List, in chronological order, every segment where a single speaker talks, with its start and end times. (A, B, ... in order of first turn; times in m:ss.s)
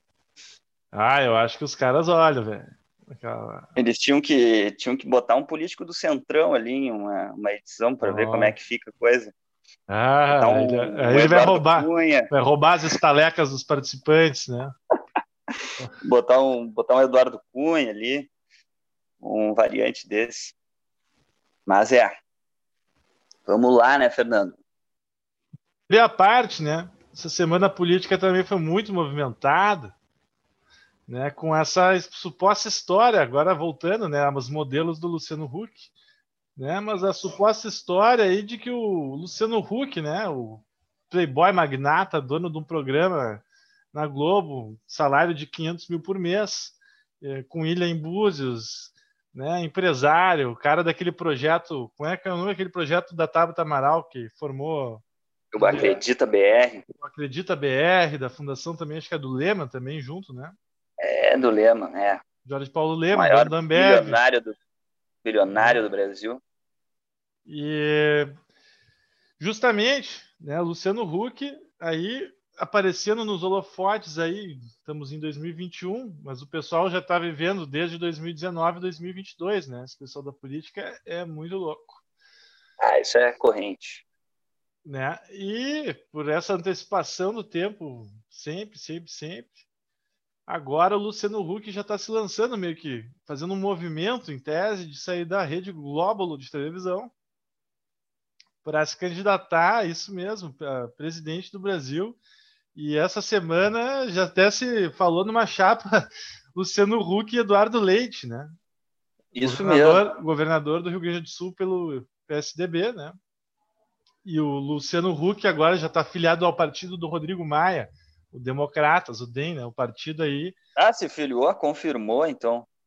0:00.9-0:03.7 A
0:03.8-0:09.3 B
0:08.0-0:08.5 A
0:09.9-0:14.7 A
0:10.3-0:12.3 B
0:16.0-0:18.3 B
0:19.2-0:20.5 B
0:21.6-0:22.1 B
0:23.5-0:24.6 B
0:25.9-0:29.9 A
0:31.1-0:35.9 A
0:36.6-0:55.0 A
0:55.5-0:56.8 B
0:55.6-0:56.0 A
0:57.0-1:00.6 A
1:01.0-1:02.2 B
1:02.4-1:04.2 A
1:03.1-1:04.5 B
1:05.2-1:06.4 B
1:05.5-1:05.8 A
1:07.4-1:08.3 A
1:09.4-1:22.0 A
1:22.8-1:24.0 B
1:24.8-1:29.6 A
1:30.5-1:37.1 A
1:38.6-1:42.2 A
1:42.7-1:48.5 A
1:49.3-1:50.0 B
1:49.4-1:53.2 A
1:54.2-2:00.5 A
2:00.8-2:02.7 B